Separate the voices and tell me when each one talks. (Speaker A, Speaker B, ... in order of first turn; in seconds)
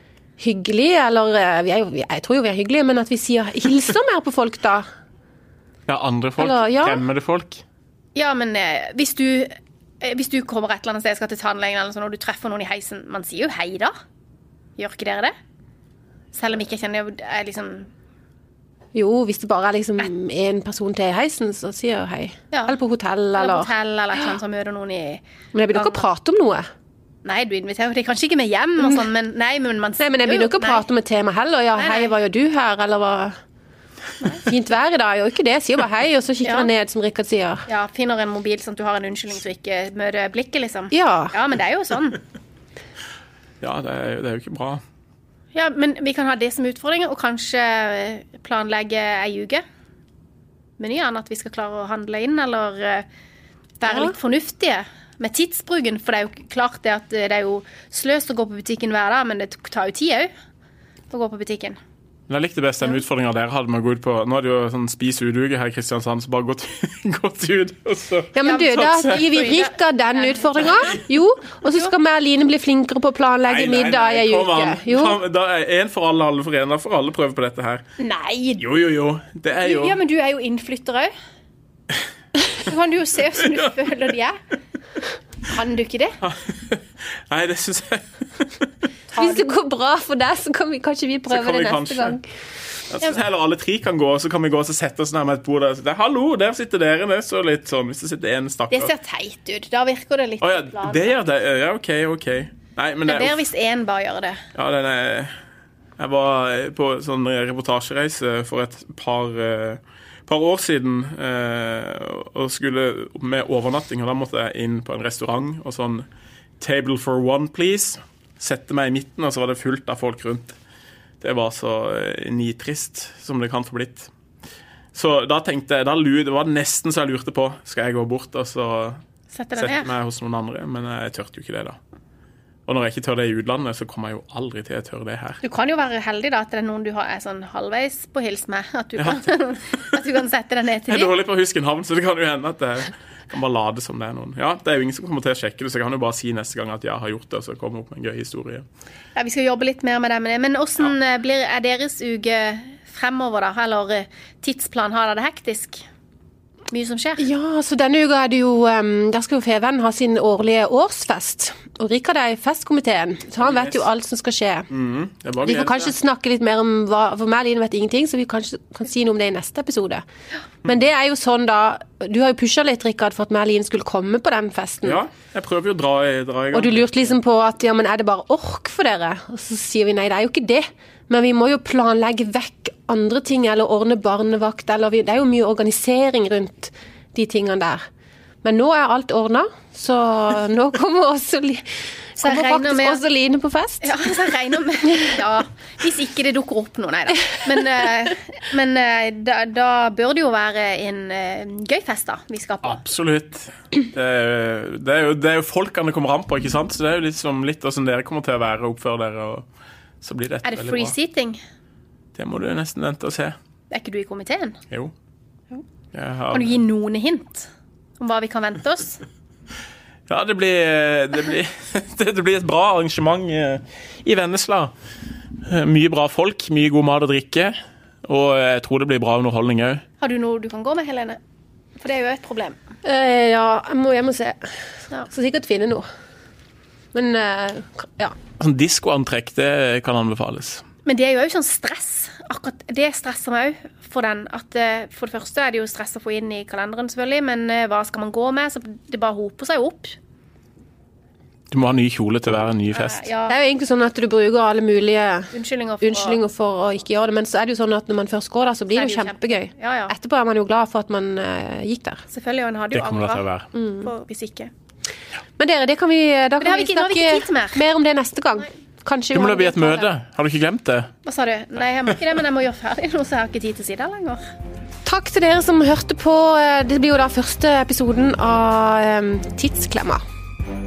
Speaker A: 0.4-4.9, 6.4-7.0, 18.9-23.7, 25.5-26.7, 30.0-33.4, 34.3-37.6, 40.9-41.3, 68.3-75.2, 89.2-92.2, 157.2-164.7, 165.4-170.1, 170.6-175.0, 176.5-187.8, 188.4-193.9, 232.8-235.9, 236.9-238.2, 253.3-262.0, 263.6-263.9, 265.4-269.9, 274.9-280.0
Speaker B: 5.9-7.6, 43.6-44.8, 62.3-69.5, 73.5-77.8, 78.6-80.0, 86.2-88.7, 91.3-92.2, 92.9-98.9, 100.4-103.4, 104.5-105.3, 106.0-116.1, 116.6-120.6, 121.2-124.1, 124.9-129.0, 129.6-131.8, 132.7-135.4, 139.0-139.2, 140.9-148.7, 163.4-163.8, 164.7-165.9, 174.8-177.2, 202.6-209.5, 210.0-210.9, 212.2-213.4, 215.9-216.6, 220.1-224.7, 225.4-229.8, 238.4-240.6, 251.5-253.1, 262.7-263.5, 269.1-270.9
Speaker C: 8.2-13.9, 14.8-15.3, 16.3-17.9, 22.5-22.8, 23.4-26.1, 27.2-30.9, 31.8-32.1, 36.4-36.7, 37.7-42.2, 45.5-49.6, 50.8-53.1, 53.8-60.3, 61.1-61.8, 68.4-71.0, 71.7-71.9, 78.0-78.6, 79.6-81.1, 82.6-84.4, 85.5-86.2, 89.1-89.5, 98.7-101.2, 103.1-104.4, 129.3-129.9, 135.4-141.1, 149.2-155.8, 156.7-157.3, 192.2-193.0, 193.8-202.8, 210.4-211.4, 213.7-214.6, 216.3-219.0, 230.0-231.2, 231.8-232.6, 240.9-250.0, 252.7-253.3, 255.3-256.2, 258.7-259.9, 262.1-263.2, 263.8-264.5, 266.4-267.6, 271.0-274.3